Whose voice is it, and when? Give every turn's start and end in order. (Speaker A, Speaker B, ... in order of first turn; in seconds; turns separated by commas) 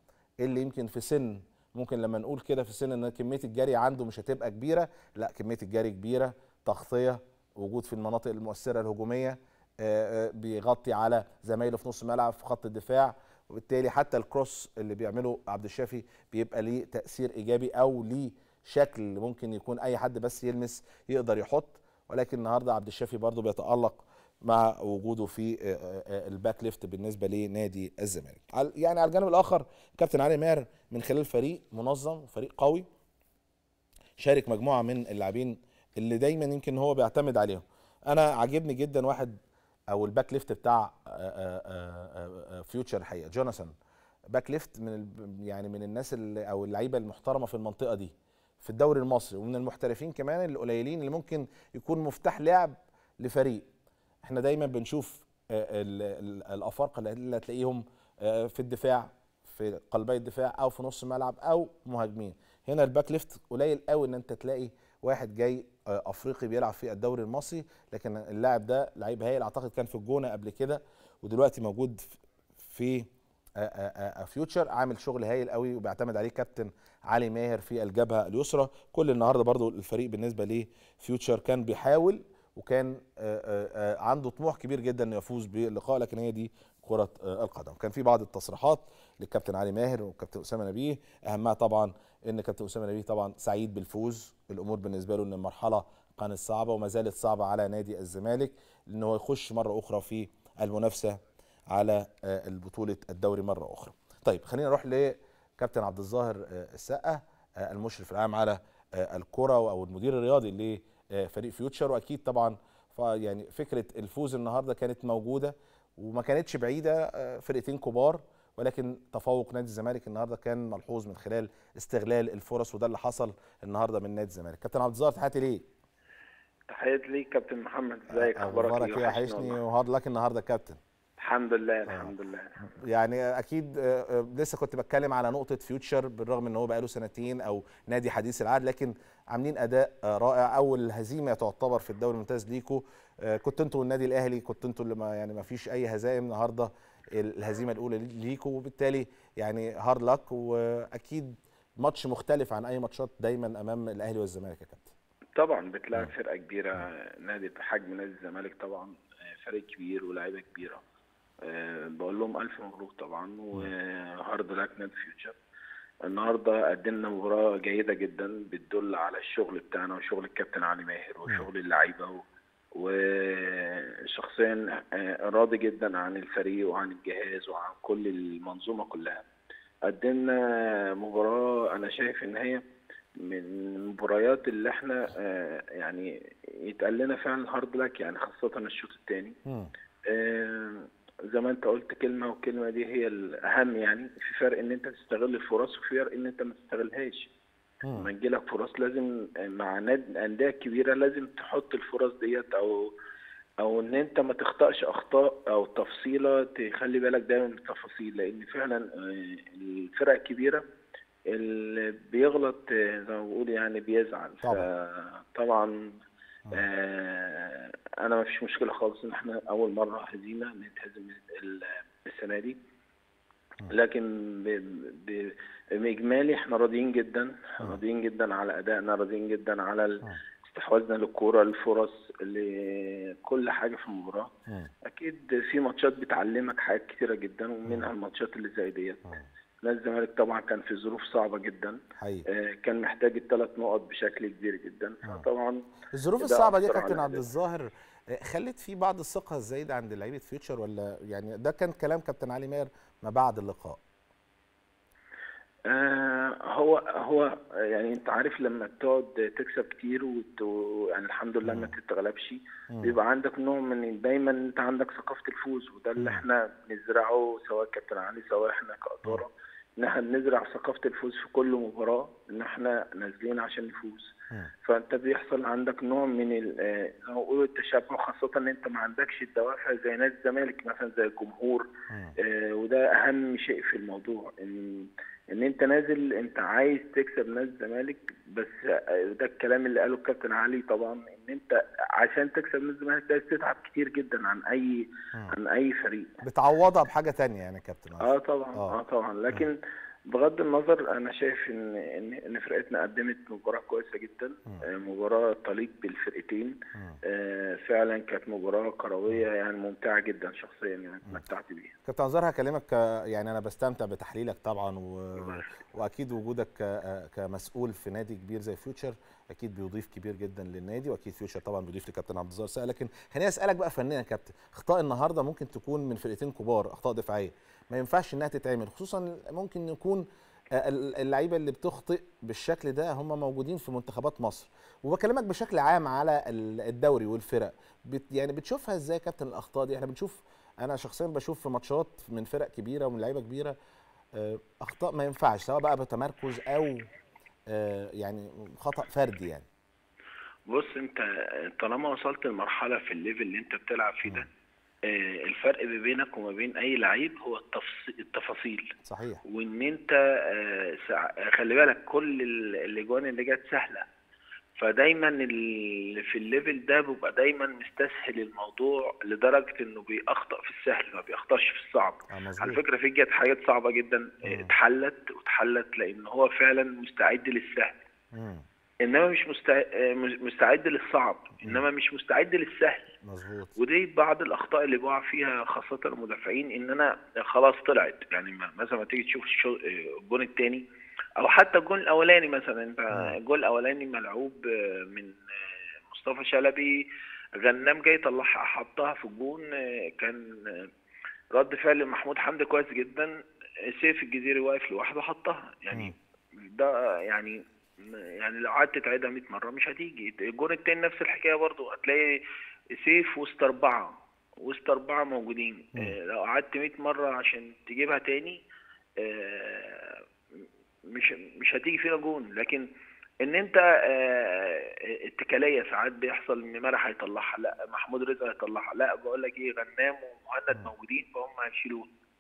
Speaker A: 0.4-32.9, Speaker A: 34.2-39.4, Speaker A: 39.9-43.7, Speaker A: 44.3-53.7, Speaker A: 54.2-101.2, Speaker A: 101.7-125.7, Speaker B: 126.7-129.6, Speaker A: 128.1-130.8, Speaker B: 131.2-132.6, Speaker A: 132.8-154.9, Speaker B: 155.4-160.8, Speaker B: 161.4-165.4, Speaker B: 166.1-172.2, Speaker B: 172.8-179.2, Speaker B: 179.9-182.6, Speaker B: 183.2-186.1, Speaker B: 186.6-189.4, Speaker A: 189.5-189.7, Speaker B: 190.1-197.3, Speaker A: 197.8-198.1, Speaker B: 198.0-202.9, Speaker B: 203.6-210.6, Speaker B: 211.3-216.0, Speaker A: 214.4-214.7, Speaker B: 216.5-222.6, Speaker B: 223.7-234.3, Speaker B: 234.9-239.1, Speaker B: 239.6-245.6, Speaker A: 242.0-242.3, Speaker A: 245.9-253.8, Speaker B: 246.2-247.2, Speaker B: 255.7-274.1, Speaker A: 261.4-261.7, Speaker A: 266.0-266.2, Speaker B: 274.6-281.7, Speaker A: 281.9-282.2, Speaker B: 282.2-296.1, Speaker A: 296.2-298.7, Speaker B: 298.0-299.6, Speaker B: 300.1-311.8, Speaker A: 311.9-343.6, Speaker B: 315.2-315.5, Speaker A: 344.1-346.9, Speaker A: 347.5-349.5, Speaker B: 350.5-354.3, Speaker B: 354.9-358.7, Speaker A: 358.9-359.2, Speaker B: 359.3-363.9, Speaker B: 364.6-377.8, Speaker A: 372.1-372.6, Speaker A: 374.3-374.5, Speaker A: 378.1-378.4, Speaker B: 378.8-382.9, Speaker A: 383.0-383.6, Speaker B: 383.6-390.6, Speaker B: 391.2-395.1, Speaker B: 395.9-396.8, Speaker B: 397.4-400.7, Speaker B: 401.4-403.1, Speaker B: 403.7-412.2, Speaker B: 412.8-418.4, Speaker B: 419.0-420.0, Speaker B: 420.9-422.7, Speaker B: 423.2-431.9